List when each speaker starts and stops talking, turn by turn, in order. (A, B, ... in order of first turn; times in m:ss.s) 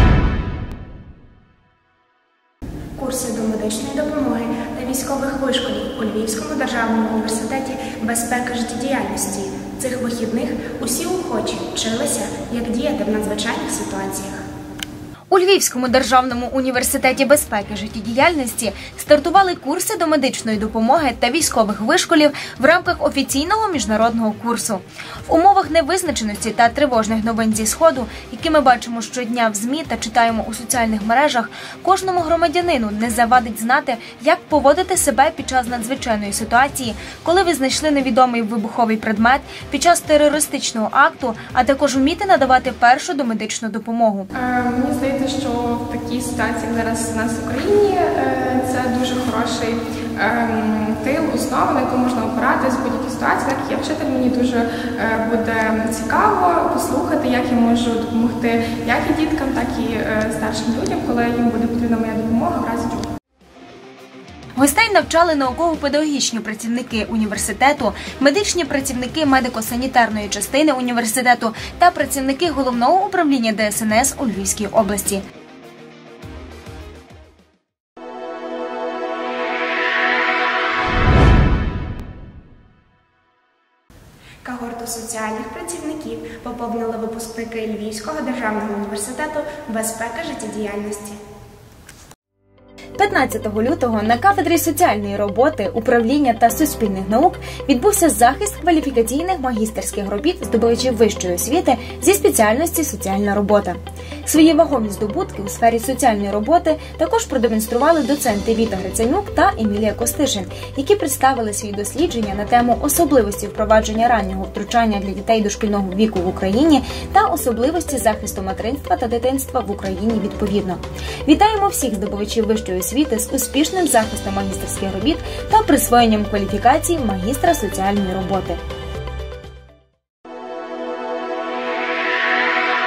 0:03.0-0:14.4 A
0:15.3-0:44.3 B
0:44.4-1:03.1 C
1:04.6-1:15.2 B
1:24.4-1:31.2 A
1:33.0-2:08.6 B